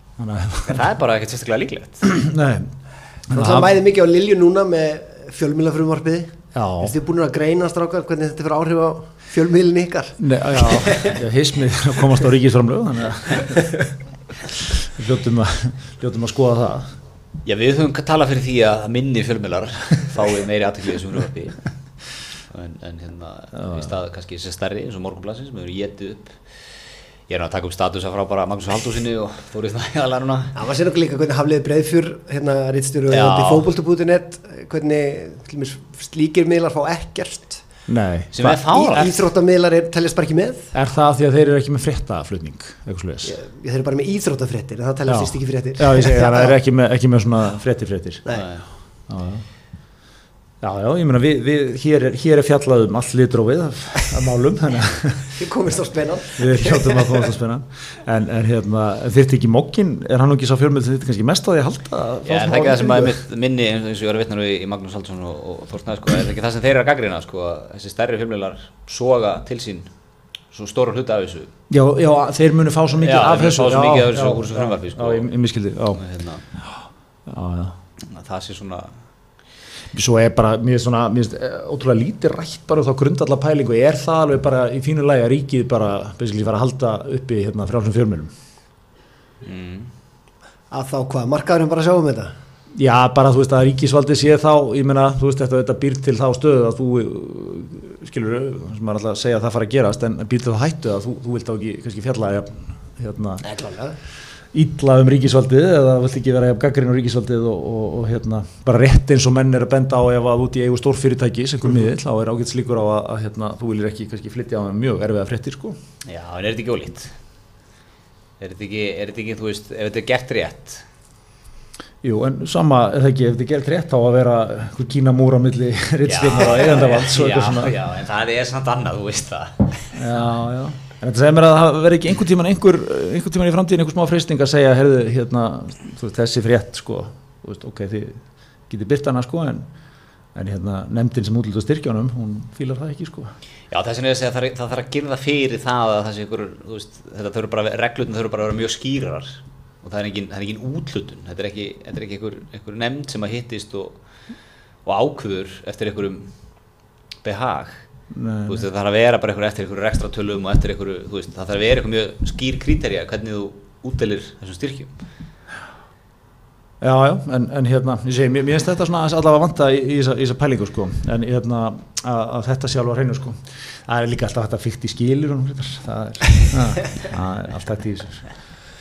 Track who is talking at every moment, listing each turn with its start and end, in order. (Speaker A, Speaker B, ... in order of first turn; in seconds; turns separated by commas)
Speaker A: 0.2-0.9, Speaker B: 0.7-2.0, Speaker A: 2.0-2.7, Speaker A: 3.3-3.7, Speaker C: 3.3-11.1, Speaker A: 6.5-6.9, Speaker A: 10.2-13.9, Speaker A: 14.6-16.9, Speaker B: 17.4-21.7, Speaker B: 22.5-26.4, Speaker A: 23.6-23.9, Speaker B: 27.3-30.6, Speaker C: 30.5-37.6, Speaker B: 33.1-33.7, Speaker A: 37.9-38.8, Speaker B: 38.3-39.2, Speaker C: 38.7-40.7, Speaker A: 40.7-43.3, Speaker C: 43.2-46.6, Speaker A: 45.1-48.2, Speaker B: 48.3-48.6, Speaker A: 49.1-49.4, Speaker A: 50.6-55.4, Speaker C: 55.4-57.3, Speaker A: 56.4-63.2, Speaker B: 62.2-69.9, Speaker B: 70.5-71.5, Speaker A: 71.7-76.0, Speaker B: 73.0-75.3, Speaker B: 76.0-76.4, Speaker A: 77.3-77.8, Speaker B: 78.0-78.9, Speaker A: 79.9-88.3, Speaker B: 89.4-89.9, Speaker C: 90.7-92.3, Speaker A: 92.7-103.4, Speaker C: 103.4-104.0, Speaker A: 104.5-115.8, Speaker B: 116.0-117.1, Speaker B: 118.4-120.8, Speaker A: 122.0-127.8, Speaker B: 126.1-129.9, Speaker A: 129.9-139.7, Speaker A: 140.3-143.3, Speaker B: 143.7-154.0, Speaker B: 154.8-156.3, Speaker B: 157.2-157.8, Speaker A: 158.1-158.7, Speaker B: 158.5-164.9, Speaker A: 166.8-178.2